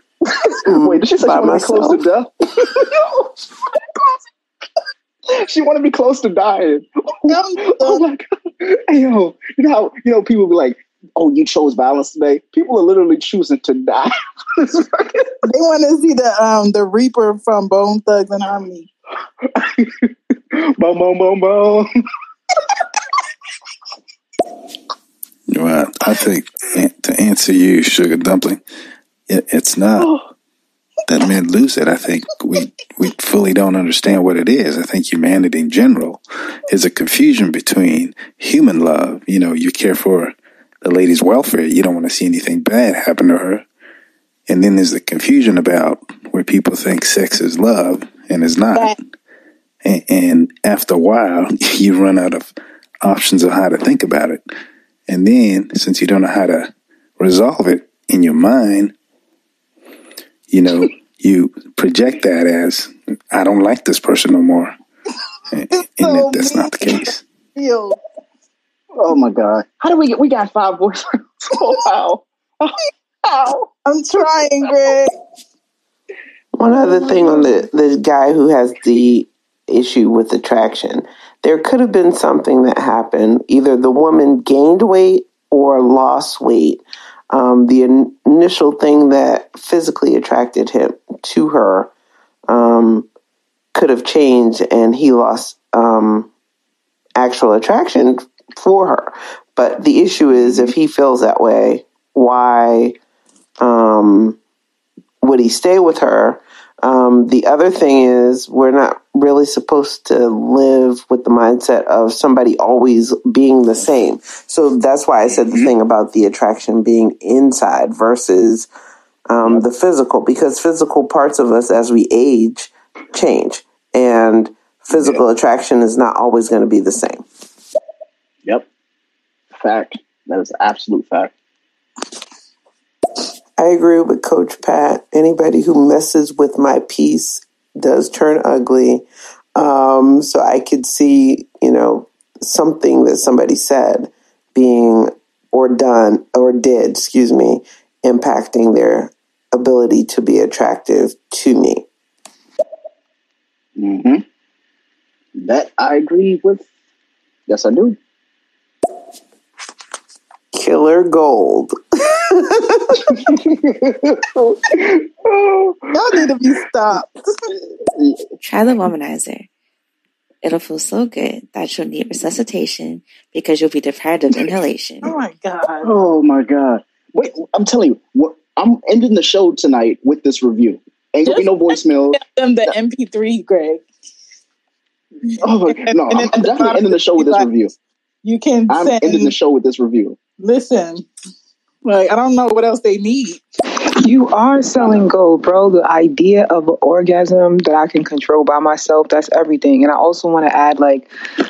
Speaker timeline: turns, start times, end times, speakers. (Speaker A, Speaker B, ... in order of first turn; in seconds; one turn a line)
Speaker A: 0.3-3.3
Speaker B: 0.6-2.0
Speaker A: 5.3-15.3
Speaker C: 7.3-8.0
Speaker C: 15.4-18.9
Speaker A: 19.5-21.9
Speaker D: 25.5-28.6
Speaker D: 29.3-30.1
Speaker A: 30.0-30.3
Speaker D: 31.1-43.6
Speaker D: 44.5-48.9
Speaker D: 49.8-54.4
Speaker D: 55.1-58.9
Speaker D: 60.5-64.7
Speaker D: 65.5-67.2
Speaker C: 65.7-68.0
Speaker A: 68.9-73.7
Speaker C: 73.8-75.1
Speaker B: 76.5-91.9
Speaker C: 76.7-77.5
Speaker B: 92.5-93.1
Speaker B: 93.7-96.3
Speaker B: 97.2-102.9
Speaker A: 100.3-100.7
Speaker B: 103.6-104.4
Speaker B: 105.2-118.7
Speaker A: 115.3-115.7
Speaker B: 119.3-127.2
Speaker A: 124.9-125.2
Speaker A: 129.5-131.3
Speaker B: 133.6-139.0
Speaker B: 139.6-151.8
Speaker A: 153.8-154.2
Speaker A: 155.3-156.7
Speaker A: 157.5-158.0
Speaker B: 160.5-163.1
Speaker A: 163.1-165.9
Speaker C: 165.9-167.1
Speaker A: 167.9-168.2
Speaker E: 168.4-169.5
Speaker E: 170.4-175.2
Speaker C: 175.0-175.9
Speaker A: 175.8-182.2
Speaker C: 182.1-183.8
Speaker C: 185.3-187.5
Speaker A: 185.4-187.7
Speaker C: 188.2-189.3
Speaker A: 188.7-190.2
Speaker C: 190.4-191.1
Speaker C: 191.8-193.4
Speaker F: 194.0-201.1